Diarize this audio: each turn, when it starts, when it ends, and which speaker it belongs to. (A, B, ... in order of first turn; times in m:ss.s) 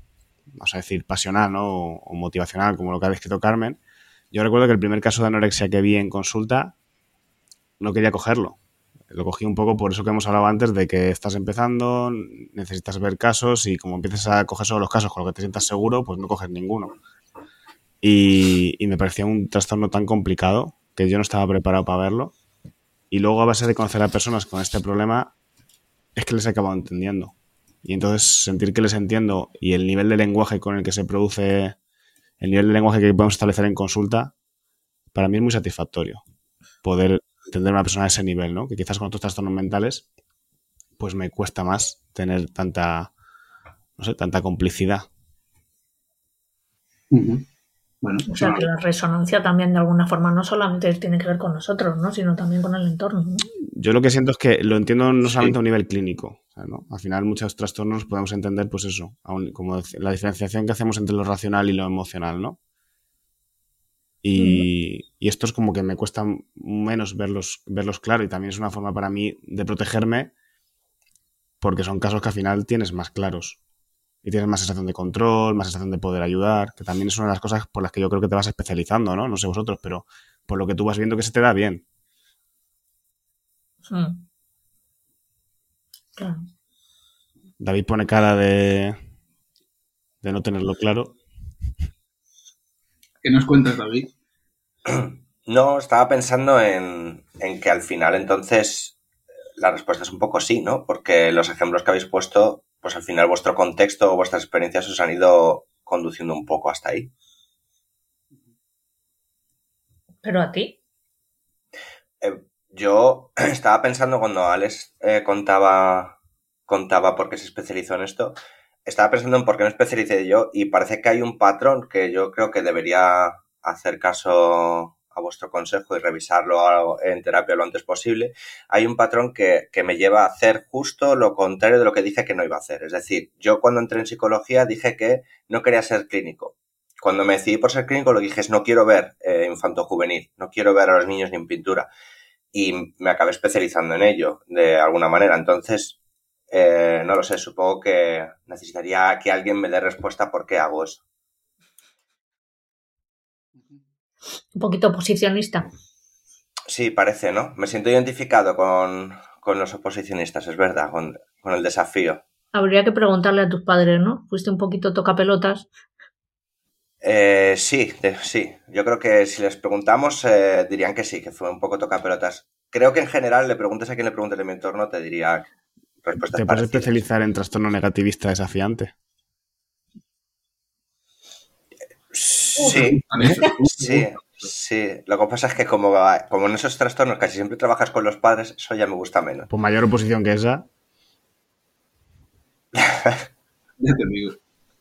0:00.5-0:03.8 A
0:04.3-0:06.7 A
0:07.8-0:08.6 A
0:09.1-0:16.9 A
0:18.0-0:22.3 A
0:23.1-0:25.3 A
0:26.2-0:31.8 A
0:32.4-0:34.3 A
0:35.1-0:36.2 A
0:36.8-0:40.0 A
0:41.0-0:43.1 A
0:44.0-0:45.1 A
0:47.1-0:47.4 B
0:48.0-0:48.6 B
0:48.3-0:53.4 C
0:53.8-1:02.6 A
1:04.2-1:10.3 A
1:04.4-1:04.6 C
1:11.6-1:13.6 A
1:14.2-1:21.8 A
1:23.9-1:24.2 C
1:26.2-1:26.4 C
1:27.6-1:29.0 A
1:30.2-1:31.1 A
1:33.2-1:34.1 B
1:34.8-1:39.0 D
1:39.6-1:47.1 D
1:50.2-1:50.8 C
1:52.2-1:56.2 D
1:56.7-2:21.9 D
2:22.5-2:26.0 D
2:26.5-2:31.0 D
2:34.5-2:35.7 C
2:36.7-2:42.2 D
2:42.5-2:45.7 C
2:47.0-2:55.5 D
2:56.0-2:56.9 D
2:56.3-2:58.9 A
3:02.1-3:09.5 D
3:02.6-3:04.5 B
3:09.5-3:10.6 A
3:12.7-3:13.2 D
3:13.8-3:14.4 B